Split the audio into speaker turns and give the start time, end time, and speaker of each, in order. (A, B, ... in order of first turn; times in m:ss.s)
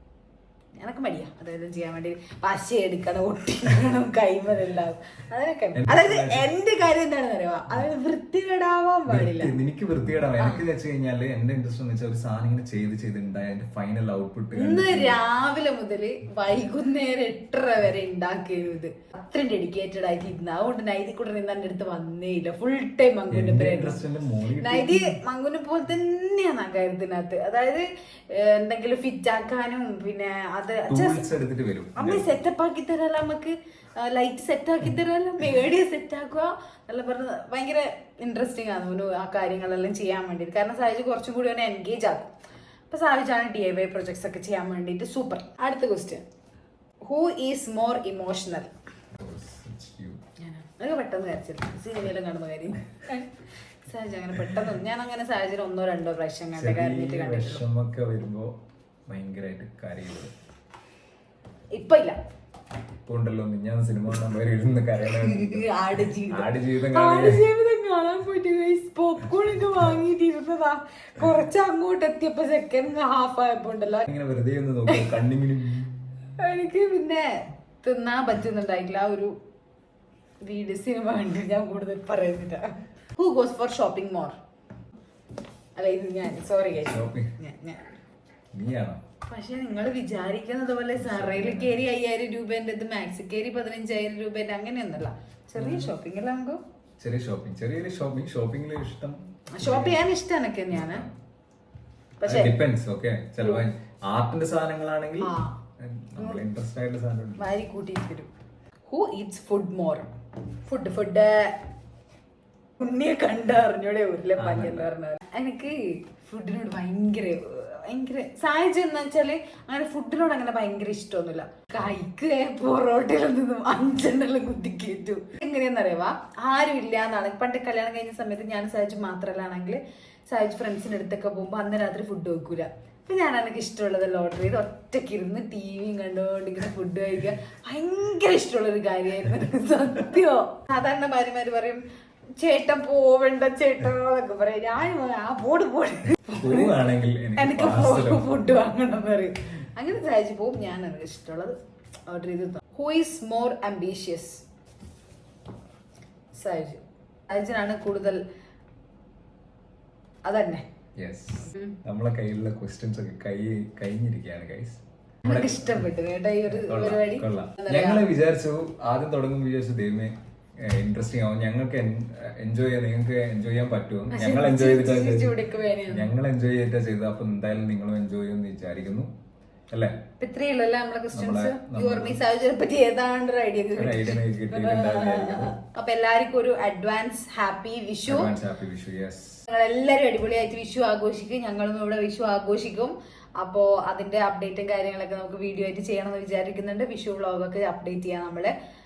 0:00.8-0:09.5 A
0:05.7-0:06.5 B
0:09.1-0:15.2 B
0:10.4-0:10.6 A
0:14.5-0:24.0 A
0:23.3-0:25.2 B
0:24.6-0:31.3 A
0:30.9-0:32.3 B
0:32.0-0:42.3 A
0:42.9-0:46.2 A
0:47.0-0:48.7 A
0:49.2-0:50.2 B
0:50.4-0:57.6 A
0:56.5-0:58.5 B
0:59.1-1:00.3 B
1:01.7-1:02.2 A
1:03.0-1:07.5 B
1:05.1-1:14.1 A
1:14.1-1:16.0 B
1:14.9-1:15.2 A
1:16.4-1:19.3 A
1:20.4-1:24.4 A
1:25.8-1:27.9 A
1:26.7-1:27.3 B
1:28.5-1:29.0 B
1:29.3-1:36.6 A
1:30.9-1:31.8 B
1:35.6-1:35.9 B
1:37.0-1:40.1 B
1:39.5-1:41.0 A
1:40.7-1:41.1 B
1:42.2-1:42.5 A
1:42.2-1:47.4 B
1:45.2-1:45.6 A
1:46.2-1:46.4 A
1:47.4-1:48.3 A
1:48.9-1:50.1 A
1:50.6-1:51.6 A
1:52.8-2:21.8 A
1:54.4-1:54.9 B
2:22.4-2:31.6 A
2:26.3-2:28.3 B
2:32.1-2:34.4 A
2:36.3-2:38.2 A
2:40.2-2:40.6 A
2:41.0-2:45.9 B
2:45.2-2:48.0 A
2:46.5-2:55.3 B
2:54.1-2:56.1 A
2:55.9-2:59.1 B
3:00.2-3:08.3 A
3:01.1-3:02.2 B
3:03.8-3:05.5 B
3:08.0-3:09.4 B
3:09.5-3:18.5 A